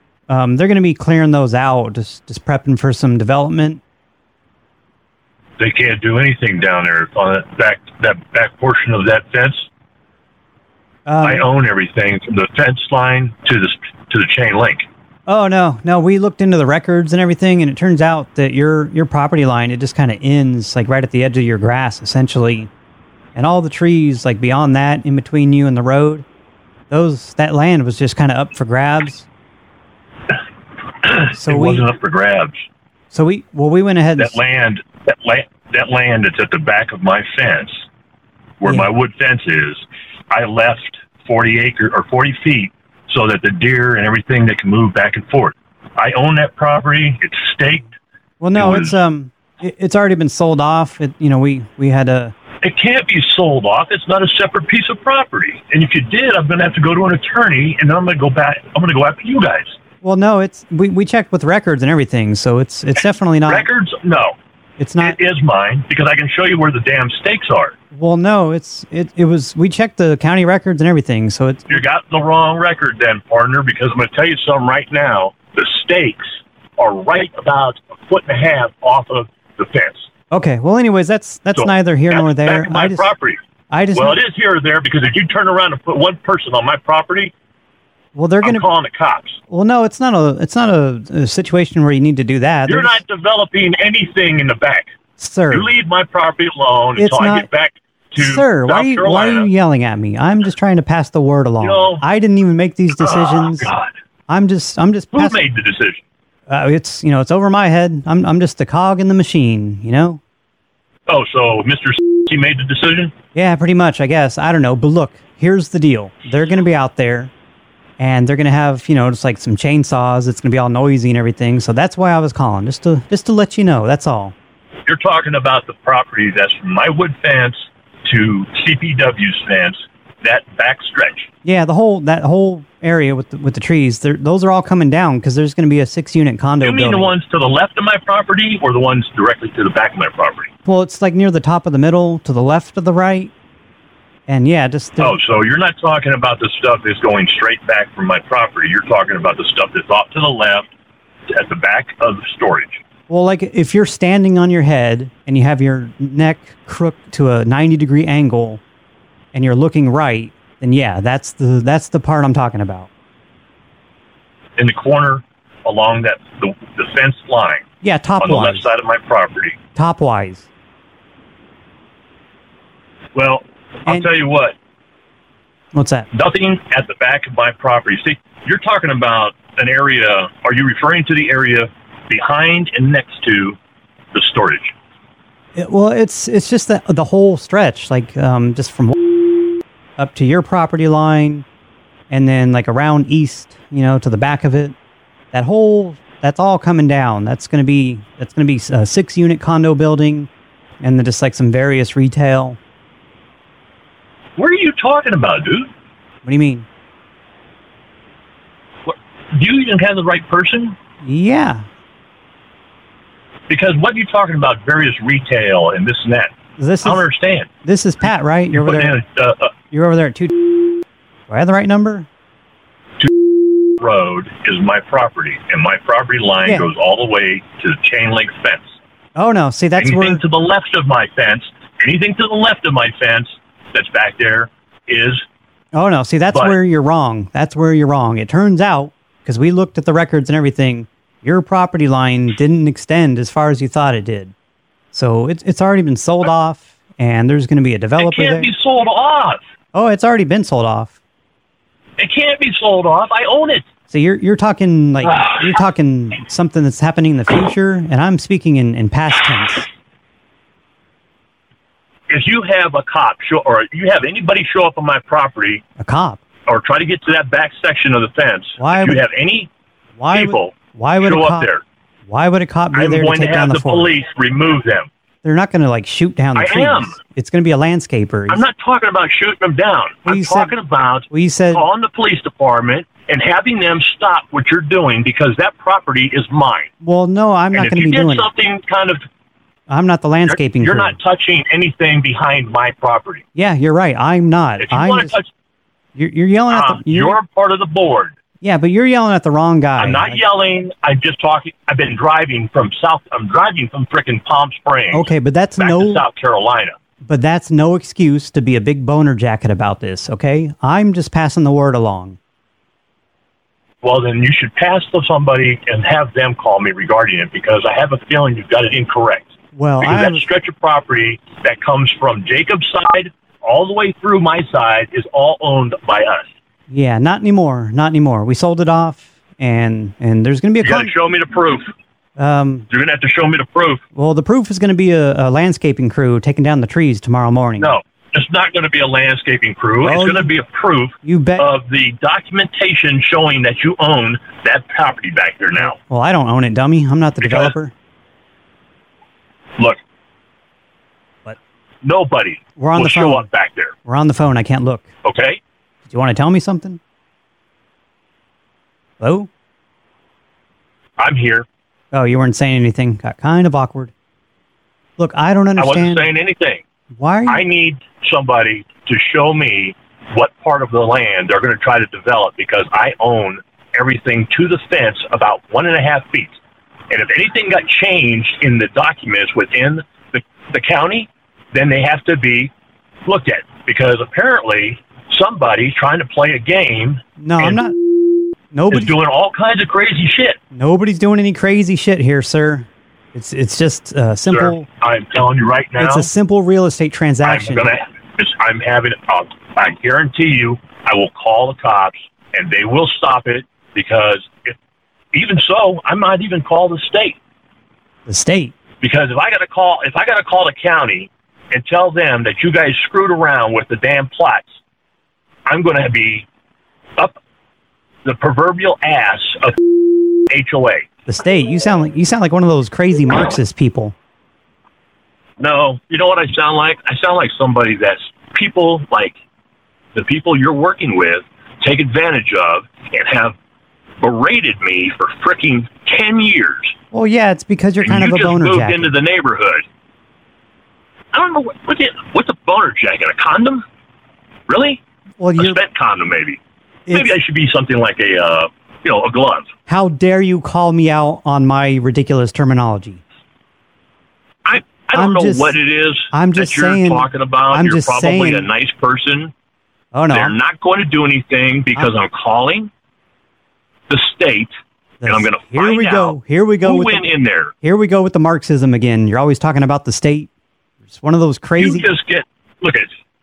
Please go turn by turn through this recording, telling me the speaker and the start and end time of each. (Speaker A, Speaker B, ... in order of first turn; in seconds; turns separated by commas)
Speaker A: 0.3-3.8, Speaker B: 5.6-9.7, Speaker A: 11.1-11.5, Speaker B: 11.2-14.9, Speaker A: 15.2-22.7, Speaker A: 23.3-26.2, Speaker A: 26.9-29.3, Speaker B: 31.1-32.6, Speaker A: 31.3-31.9, Speaker A: 33.1-34.4, Speaker B: 34.2-37.8, Speaker B: 38.6-47.9, Speaker A: 48.4-52.3, Speaker B: 48.5-48.9, Speaker B: 52.6-59.8, Speaker A: 60.0-63.7, Speaker B: 63.5-64.3, Speaker A: 64.8-65.2, Speaker B: 65.0-67.8, Speaker A: 67.9-71.8, Speaker B: 71.7-80.1, Speaker A: 80.3-83.1, Speaker B: 81.5-83.4, Speaker A: 83.7-84.2, Speaker B: 83.9-87.3, Speaker A: 88.1-88.7, Speaker B: 88.4-89.4, Speaker A: 89.5-93.0, Speaker B: 92.7-94.9, Speaker A: 95.2-95.7, Speaker B: 95.5-99.5, Speaker A: 97.0-97.5, Speaker A: 98.1-103.7, Speaker B: 101.6-102.0, Speaker B: 103.0-103.9, Speaker A: 104.3-105.4, Speaker B: 105.1-106.0, Speaker A: 106.5-110.2, Speaker B: 111.1-113.1, Speaker A: 113.3-117.3, Speaker A: 118.0-124.3, Speaker B: 124.8-131.3, Speaker A: 131.4-137.1, Speaker B: 136.6-140.5, Speaker A: 140.6-143.3, Speaker A: 144.3-145.2, Speaker B: 145.0-150.7, Speaker B: 151.3-152.8, Speaker A: 153.1-158.6, Speaker A: 159.3-162.9, Speaker B: 164.6-167.6, Speaker A: 167.8-168.7, Speaker B: 168.2-169.6, Speaker A: 169.7-170.5, Speaker B: 173.1-174.5, Speaker A: 175.7-176.1, Speaker B: 176.1-183.6, Speaker B: 184.1-184.7, Speaker A: 185.5-189.0, Speaker A: 190.0-191.4, Speaker A: 192.1-194.7, Speaker A: 195.3-200.3, Speaker A: 200.8-202.6, Speaker B: 204.4-205.7, Speaker A: 206.2-206.7, Speaker B: 208.8-210.8, Speaker A: 211.0-211.7, Speaker B: 213.5-216.3, Speaker A: 216.6-217.0, Speaker B: 216.8-217.5, Speaker A: 217.6-219.0, Speaker B: 218.5-219.5, Speaker A: 219.7-220.7, Speaker A: 221.3-222.1, Speaker B: 223.8-228.8, Speaker A: 229.2-230.2, Speaker B: 229.8-235.2, Speaker A: 235.7-244.3, Speaker B: 236.3-236.6, Speaker A: 244.9-248.5, Speaker B: 248.0-249.4, Speaker A: 249.7-251.0, Speaker B: 252.0-253.7, Speaker A: 253.9-259.7, Speaker B: 255.0-255.4, Speaker B: 262.1-265.6, Speaker A: 265.8-266.2, Speaker B: 266.4-269.5, Speaker A: 268.6-269.0, Speaker A: 270.0-271.5, Speaker B: 270.1-271.6, Speaker A: 272.1-273.9, Speaker B: 272.7-274.9, Speaker A: 275.2-278.4, Speaker B: 276.3-277.0, Speaker B: 278.3-286.7, Speaker A: 280.1-280.5, Speaker A: 281.1-281.6, Speaker A: 286.8-288.3, Speaker B: 287.5-289.0, Speaker A: 289.7-290.9, Speaker B: 290.2-293.2, Speaker A: 293.3-295.1, Speaker B: 294.6-295.3, Speaker A: 295.9-297.2, Speaker B: 296.5-298.1, Speaker A: 298.4-300.2, Speaker B: 299.8-305.1, Speaker A: 304.9-306.0, Speaker B: 305.6-306.8, Speaker A: 307.0-312.2, Speaker B: 313.8-326.3, Speaker A: 319.5-320.2, Speaker A: 326.7-330.9, Speaker B: 330.6-331.7, Speaker A: 332.2-332.6, Speaker B: 332.7-333.8, Speaker A: 333.9-337.7, Speaker B: 337.6-345.8, Speaker A: 339.8-340.3, Speaker A: 341.0-341.5, Speaker A: 345.6-347.7, Speaker B: 347.2-347.5, Speaker B: 351.8-353.7, Speaker A: 352.6-353.3, Speaker A: 353.8-354.9, Speaker B: 355.0-355.4, Speaker A: 355.8-356.8, Speaker A: 359.0-359.3, Speaker B: 361.0-361.4, Speaker A: 361.9-363.9, Speaker A: 365.0-366.1, Speaker B: 365.6-366.6, Speaker A: 366.9-367.4, Speaker B: 367.3-376.4, Speaker B: 376.9-382.5, Speaker B: 383.1-387.6, Speaker A: 387.2-387.8, Speaker A: 388.5-388.9, Speaker B: 388.7-390.4, Speaker A: 390.5-394.7, Speaker B: 394.3-396.1, Speaker A: 395.8-397.7, Speaker B: 397.2-404.6, Speaker B: 405.1-407.2, Speaker A: 408.1-408.6, Speaker B: 408.8-414.6, Speaker B: 415.5-416.2, Speaker B: 418.0-419.5, Speaker B: 420.3-420.9, Speaker A: 421.1-423.9, Speaker B: 425.4-429.1, Speaker B: 429.9-433.4, Speaker B: 434.0-436.7, Speaker A: 436.9-438.9, Speaker B: 437.8-439.6, Speaker B: 441.1-443.6, Speaker B: 444.5-444.8, Speaker A: 445.2-445.6, Speaker B: 445.4-446.4, Speaker A: 446.9-447.1, Speaker B: 446.9-449.5, Speaker A: 449.7-453.0, Speaker B: 454.4-459.3, Speaker A: 454.9-455.6, Speaker A: 456.1-458.5, Speaker A: 459.9-460.4, Speaker B: 460.1-462.7, Speaker B: 463.9-464.5, Speaker A: 465.0-467.1, Speaker B: 465.1-467.5, Speaker A: 467.6-470.3, Speaker A: 470.8-471.9, Speaker B: 471.6-472.9